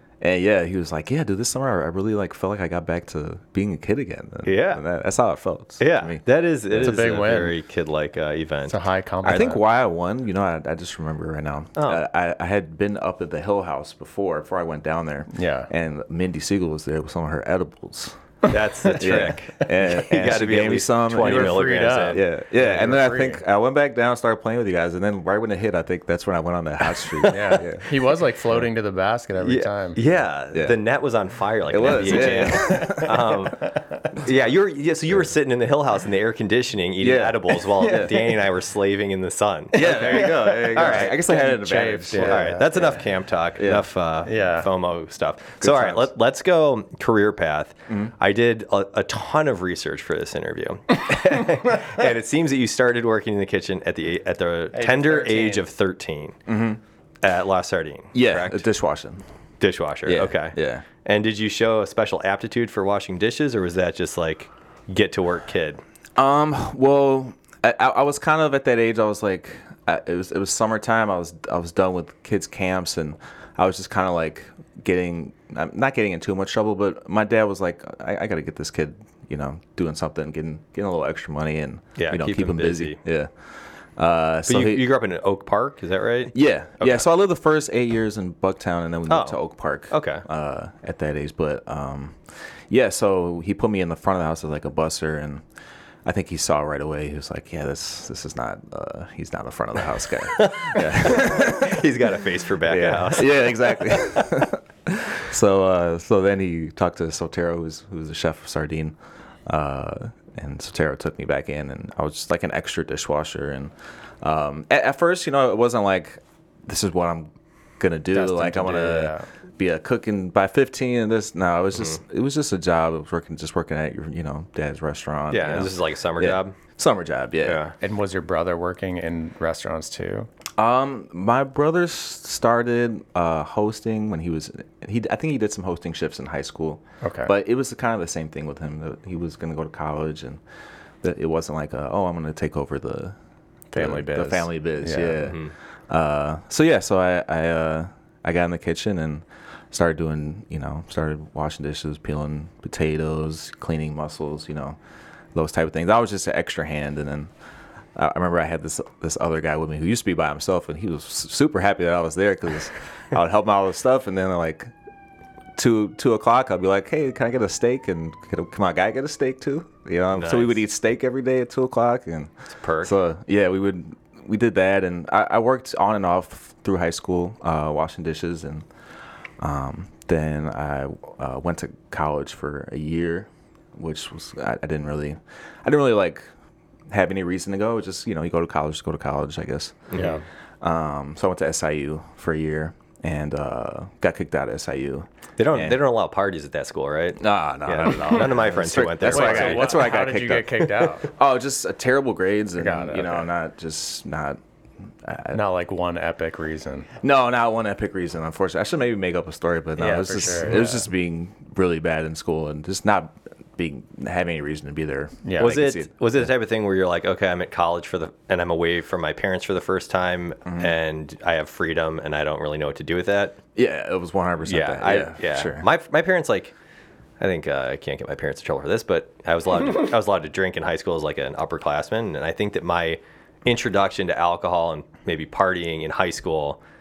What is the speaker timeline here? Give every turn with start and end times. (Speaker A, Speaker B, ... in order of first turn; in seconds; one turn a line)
Speaker A: 0.2-6.2
Speaker B: 4.5-4.8
Speaker B: 5.8-8.8
Speaker C: 6.7-7.6
Speaker C: 8.7-9.6
Speaker A: 9.2-18.2
Speaker B: 11.8-12.0
Speaker C: 15.3-15.7
Speaker C: 18.4-19.4
Speaker B: 18.4-22.2
Speaker A: 18.9-28.0
Speaker C: 21.1-23.4
Speaker B: 27.1-27.5
Speaker C: 27.2-30.0
Speaker B: 29.4-41.2
Speaker A: 30.5-30.8
Speaker A: 31.7-33.3
Speaker C: 32.5-33.1
Speaker A: 37.0-38.1
Speaker C: 37.8-38.3
Speaker A: 39.7-42.6
Speaker C: 39.7-43.0
Speaker B: 42.1-56.4
Speaker A: 43.6-43.9
Speaker C: 44.2-44.7
Speaker A: 45.6-46.0
Speaker C: 54.7-55.7
Speaker A: 56.5-56.8
Speaker B: 57.2-58.6
Speaker A: 58.1-59.2
Speaker B: 59.6-65.8
Speaker A: 60.0-60.9
Speaker A: 66.2-83.3
Speaker B: 82.0-83.0
Speaker A: 84.0-84.8
Speaker B: 84.5-87.0
Speaker A: 86.3-95.4
Speaker B: 89.1-90.2
Speaker A: 96.0-102.0
Speaker B: 100.3-104.3
Speaker A: 102.6-127.6
Speaker C: 118.1-119.3
Speaker B: 125.3-126.5
Speaker B: 127.4-127.7
Speaker C: 127.8-130.3
Speaker A: 130.6-140.4
Speaker C: 137.0-137.3
Speaker A: 141.0-143.2
Speaker C: 143.7-145.2
Speaker A: 143.8-154.8
Speaker B: 145.2-145.5
Speaker A: 155.3-157.3
Speaker A: 157.9-164.7
Speaker A: 165.6-172.3
Speaker B: 170.1-170.6
Speaker B: 172.6-172.9
Speaker A: 172.8-178.7
Speaker A: 179.4-186.2
Speaker A: 186.9-190.1
Speaker B: 189.9-190.2
Speaker C: 189.9-190.2
Speaker A: 190.6-195.8
Speaker B: 195.4-199.8
Speaker A: 197.2-204.4
Speaker C: 199.0-201.1
Speaker C: 202.6-203.3
Speaker A: 205.0-205.4
Speaker C: 205.3-206.9
Speaker A: 207.0-215.9
Speaker C: 209.8-210.9
Speaker C: 215.2-215.6
Speaker B: 215.4-223.4
Speaker A: 220.4-220.7
Speaker A: 223.6-225.7
Speaker B: 224.4-226.5
Speaker B: 227.2-236.6